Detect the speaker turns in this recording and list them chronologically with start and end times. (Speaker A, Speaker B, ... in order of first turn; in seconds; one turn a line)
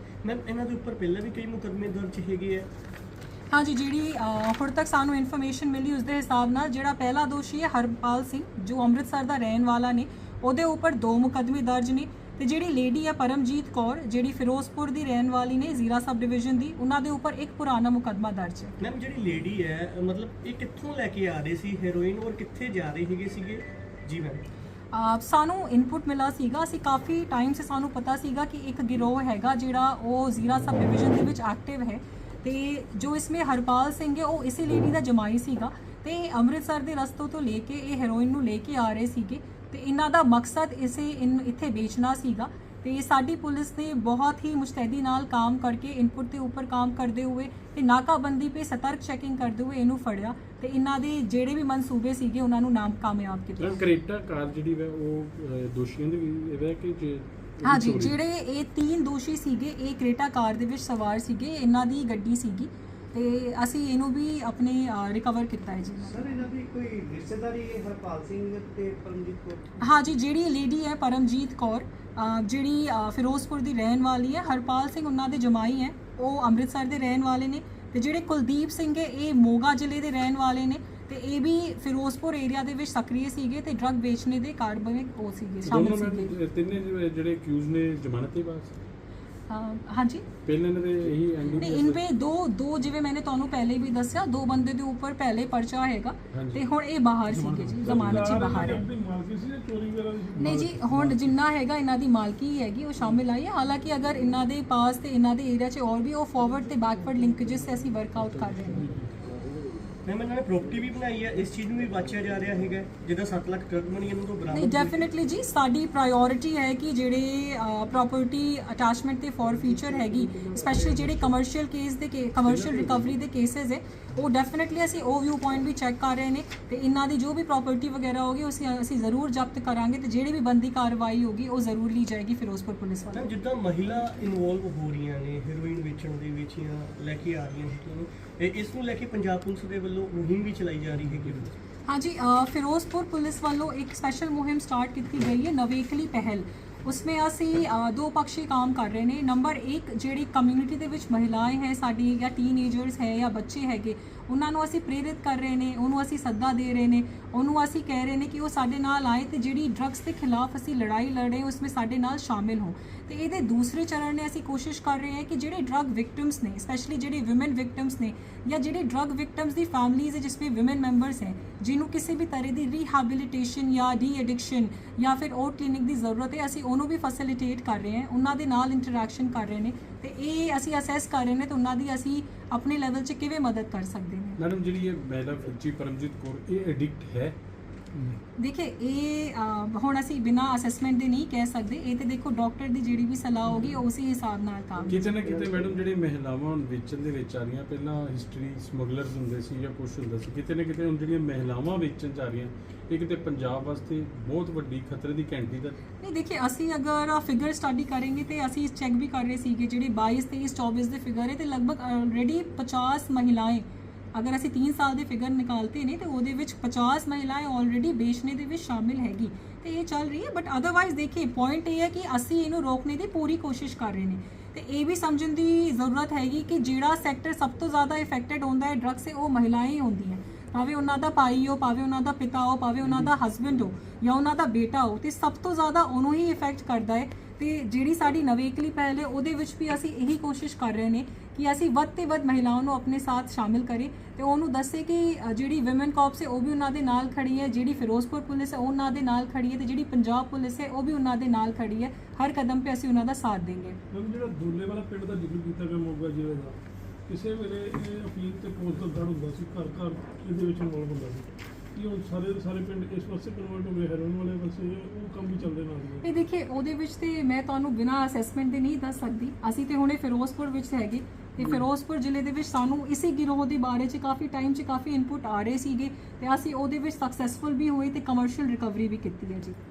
Speaker A: 0.2-2.7
Speaker B: 3.5-18.8
Speaker A: 18.8-24.4
Speaker B: 24.9-53.8
Speaker C: 53.6-58.2
Speaker B: 57.6-66.5
Speaker D: 66.1-69.6
Speaker B: 69.8-86.3
Speaker C: 85.6-88.7
Speaker B: 89.5-90.2
Speaker C: 90.5-92.0
Speaker B: 91.5-98.9
Speaker C: 96.3-96.7
Speaker E: 97.5-101.4
Speaker C: 97.9-98.4
Speaker B: 100.4-108.9
Speaker C: 108.2-109.9
Speaker E: 108.7-109.1
Speaker A: 110.1-115.0
Speaker B: 114.5-133.3
Speaker E: 119.7-120.5
Speaker C: 122.4-123.1
Speaker A: 133.2-141.6
Speaker B: 141.9-184.4
Speaker C: 184.4-187.4
Speaker B: 188.4-195.0
Speaker C: 194.9-205.8
Speaker B: 206.0-253.8
Speaker E: 253.9-266.1
Speaker B: 266.0-279.6